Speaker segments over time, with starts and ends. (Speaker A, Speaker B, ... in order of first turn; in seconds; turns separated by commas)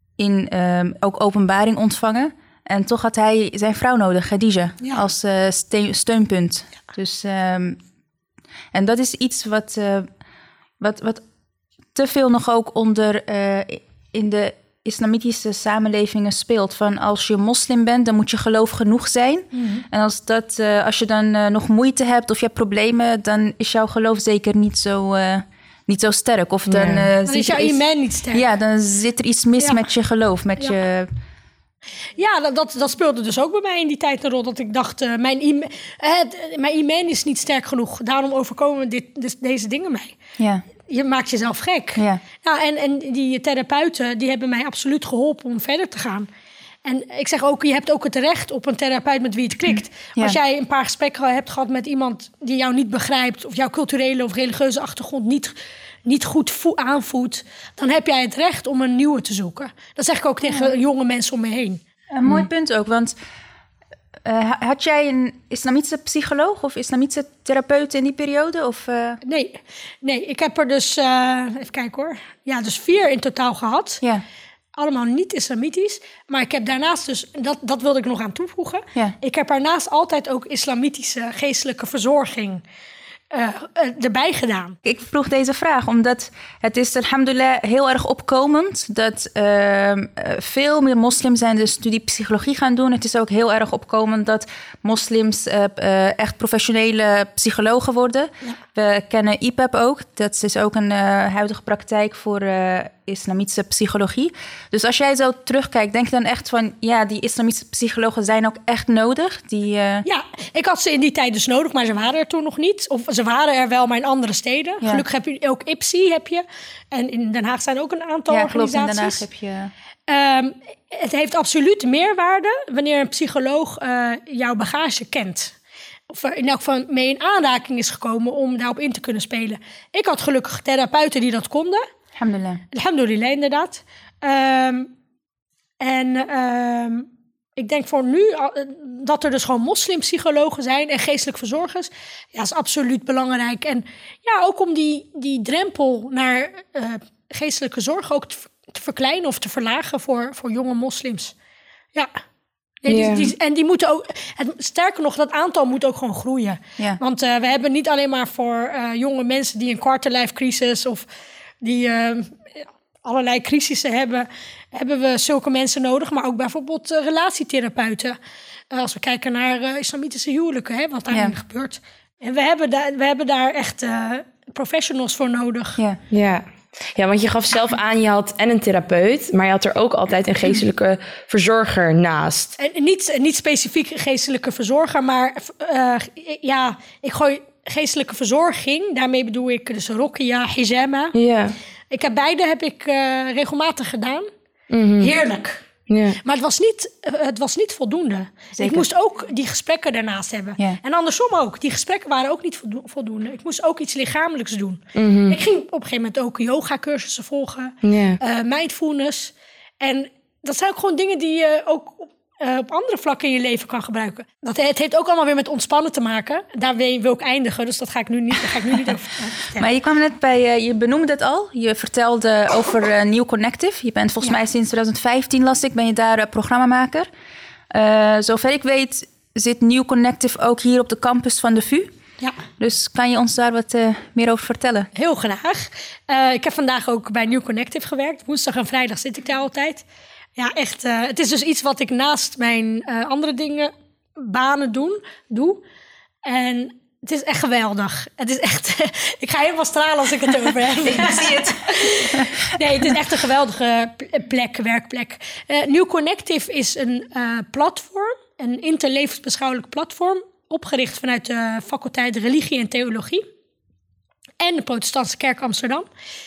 Speaker A: 0.2-7.8, Speaker A: 8.7-10.1, Speaker A: 10.8-11.2, Speaker A: 11.9-27.8, Speaker B: 19.5-19.9, Speaker C: 26.7-27.1, Speaker B: 27.2-28.4, Speaker A: 28.3-31.1, Speaker B: 32.1-40.2, Speaker A: 40.4-40.6, Speaker B: 40.8-46.3, Speaker A: 42.0-42.2, Speaker B: 46.9-61.8, Speaker A: 62.1-63.1, Speaker A: 64.2-69.2, Speaker B: 69.2-74.0, Speaker B: 74.8-82.6, Speaker B: 83.3-84.8, Speaker A: 84.8-110.0, Speaker B: 110.0-119.2, Speaker A: 118.3-119.7, Speaker B: 120.1-125.5, Speaker B: 126.1-131.9, Speaker A: 132.2-132.6, Speaker B: 132.7-134.9, Speaker B: 135.8-151.3, Speaker B: 152.8-161.1, Speaker C: 152.9-153.3, Speaker B: 161.6-168.2, Speaker B: 168.7-175.8, Speaker C: 176.1-182.6, Speaker B: 182.6-191.1, Speaker C: 191.1-191.6, Speaker B: 191.9-194.3, Speaker C: 194.7-195.1, Speaker B: 195.0-195.6, Speaker C: 195.9-196.2, Speaker B: 196.2-219.7, Speaker A: 198.5-198.9, Speaker C: 204.9-205.4, Speaker C: 207.8-208.2, Speaker A: 219.6-227.1, Speaker A: 227.7-231.9, Speaker A: 232.6-234.9, Speaker B: 234.9-239.8, Speaker B: 240.4-245.6, Speaker B: 246.2-263.2, Speaker A: 250.9-252.3, Speaker B: 264.4-265.9